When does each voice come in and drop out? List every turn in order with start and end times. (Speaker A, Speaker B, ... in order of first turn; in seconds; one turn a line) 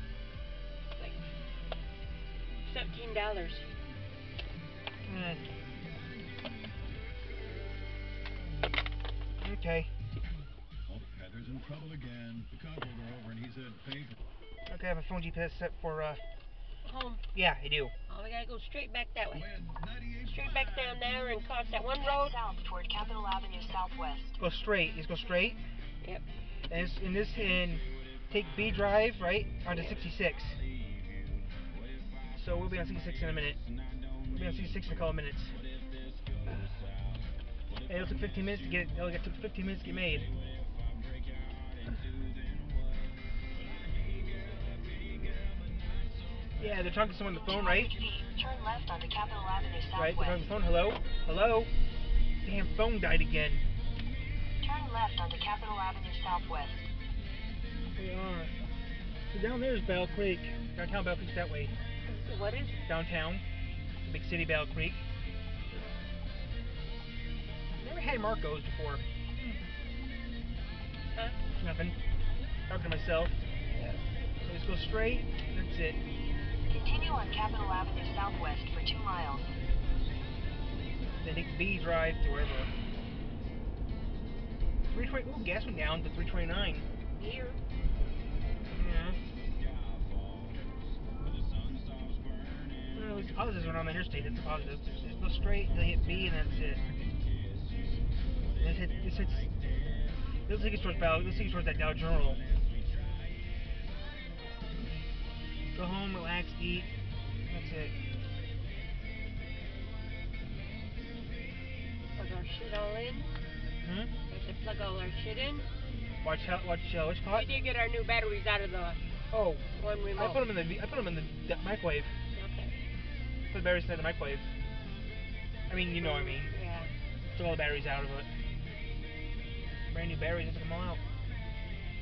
Speaker A: 0.9-1.2
Speaker A: 2.6-3.7
Speaker B: 5.0-5.4
Speaker B: 9.4-9.9
Speaker C: 10.9-14.2
Speaker B: 14.7-16.2
Speaker A: 16.8-17.2
Speaker B: 17.3-17.9
Speaker A: 18.1-19.5
Speaker C: 19.4-20.4
Speaker A: 20.2-22.4
Speaker D: 22.0-24.3
Speaker B: 24.4-25.6
Speaker B: 26.7-30.6
Speaker B: 32.3-33.6
Speaker B: 34.3-35.6
Speaker B: 37.9-40.3
Speaker B: 46.6-47.9
Speaker D: 47.5-50.4
Speaker B: 49.9-51.7
Speaker B: 52.4-53.6
Speaker D: 54.6-56.9
Speaker B: 58.0-58.5
Speaker B: 59.3-61.7
Speaker A: 62.1-62.8
Speaker B: 62.9-63.4
Speaker B: 64.0-65.0
Speaker B: 67.8-69.6
Speaker B: 71.5-72.0
Speaker B: 72.7-76.0
Speaker D: 76.7-79.5
Speaker B: 81.2-82.7
Speaker B: 84.9-86.8
Speaker A: 87.2-87.6
Speaker B: 88.7-89.2
Speaker B: 92.9-96.8
Speaker B: 98.6-99.5
Speaker B: 100.5-102.4
Speaker B: 104.8-105.1
Speaker B: 105.7-106.9
Speaker B: 107.5-107.9
Speaker A: 112.2-113.3
Speaker B: 113.8-114.1
Speaker A: 114.3-115.7
Speaker B: 116.2-117.5
Speaker A: 117.3-119.0
Speaker B: 119.3-119.6
Speaker A: 119.8-120.4
Speaker B: 120.1-122.1
Speaker A: 122.3-122.7
Speaker B: 123.5-124.5
Speaker B: 125.7-126.5
Speaker A: 126.0-126.9
Speaker B: 127.3-128.3
Speaker B: 129.9-131.0